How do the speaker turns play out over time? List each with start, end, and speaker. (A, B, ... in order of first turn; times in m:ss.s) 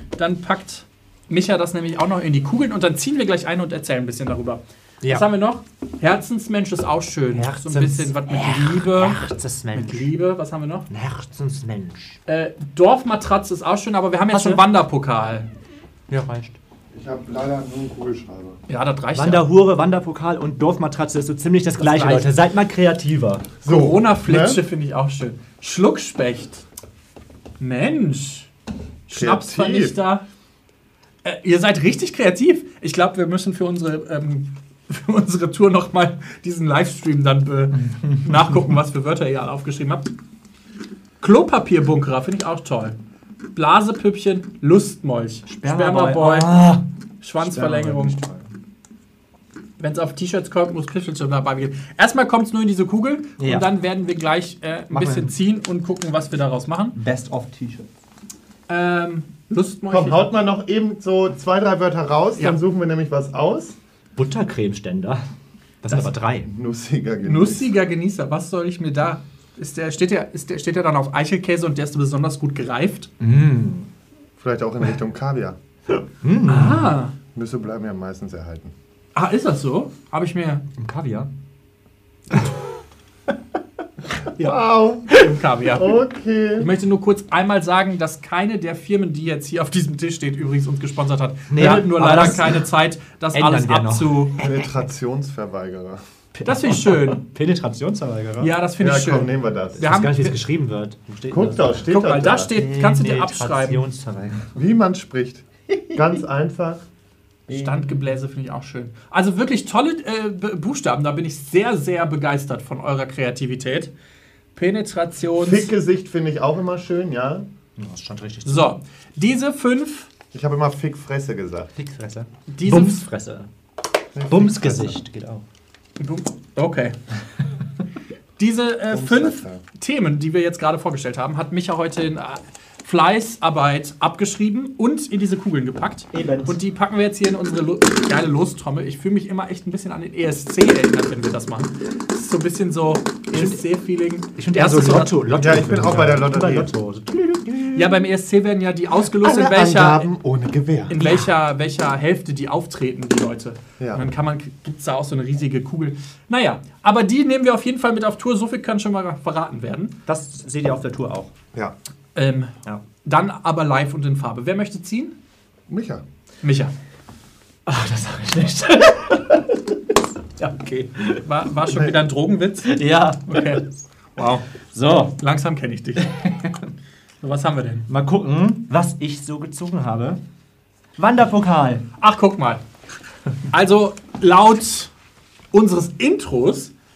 0:00.2-0:09.2 A
0:07.3-0:10.1 B
0:09.7-0:10.9 A
0:10.9-0:12.2 B
0:12.3-0:15.5 A
0:14.3-0:14.6 B
0:16.1-0:16.6 B
0:16.9-0:18.6 C
0:18.7-0:19.5 A
0:19.1-0:23.5 B
0:21.8-0:22.3 A
0:23.6-0:24.6 C
0:23.6-0:26.6 A
0:27.6-0:28.5 A
0:29.1-0:30.2 A
0:29.1-0:29.9 C
0:31.2-0:40.1 A
0:37.8-0:38.7 B
0:41.2-0:43.0 A
0:43.5-0:46.6 A
0:45.5-0:46.8 B
0:47.2-0:48.1 A
0:47.4-0:48.5 B
0:49.8-0:57.0 A
0:53.4-0:53.7 B
0:54.9-0:55.3 B
0:56.9-0:57.9 B
0:58.7-1:00.2 A
0:59.9-1:03.8 C
1:04.2-1:05.2 B
1:05.8-1:06.5 B
1:06.4-1:07.7 C
1:07.2-1:13.1 A
1:13.2-1:13.9 B
1:14.4-1:15.6 C
1:16.2-1:16.9 B
1:16.5-1:17.1 A
1:17.3-1:18.7 C
1:19.1-1:20.6 A
1:20.8-1:21.3 B
1:24.4-1:25.1 C
1:25.1-1:26.0 A
1:25.7-1:26.7 C
1:26.6-1:34.3 A
1:31.5-1:32.6 B
1:33.3-1:34.7 B
1:34.4-1:36.0 C
1:36.3-1:38.5 B
1:36.4-1:37.2 A
1:38.4-1:40.4 A
1:38.8-1:39.8 C
1:39.8-1:41.9 B
1:41.3-1:42.5 C
1:41.9-1:43.8 A
1:42.6-1:44.5 B
1:44.5-1:46.8 C
1:47.5-1:48.0 B
1:47.5-1:53.9 A
1:54.5-1:55.7 A
1:55.4-1:57.4 C
1:57.8-1:58.8 B
1:58.4-2:00.1 A
2:00.3-2:01.7 C
2:01.8-2:03.5 B
2:02.5-2:03.0 A
2:04.1-2:05.0 C
2:04.3-2:05.4 B
2:06.0-2:07.0 A
2:08.4-2:25.2 A
2:08.9-2:09.6 C
2:16.1-2:16.6 B
2:23.3-2:23.6 B
2:24.4-2:28.0 B
2:25.4-2:26.7 C
2:27.7-2:30.1 A
2:29.2-2:30.9 C
2:30.9-2:40.0 A
2:31.0-2:31.3 B
2:33.8-2:34.0 C
2:40.0-2:41.3 B
2:42.1-2:45.1 A
2:45.7-2:46.0 C
2:46.4-2:46.7 A
2:47.6-2:51.3 B
2:51.2-2:53.6 A
2:52.6-2:53.7 B
2:54.2-2:54.4 A
2:54.7-2:55.1 B
2:55.2-2:56.1 A
2:56.0-2:56.7 B
2:57.2-2:57.9 A
2:57.9-3:00.2 B
3:01.0-3:01.8 B
3:02.0-3:02.6 A
3:03.5-3:04.9 A
3:05.5-3:06.7 A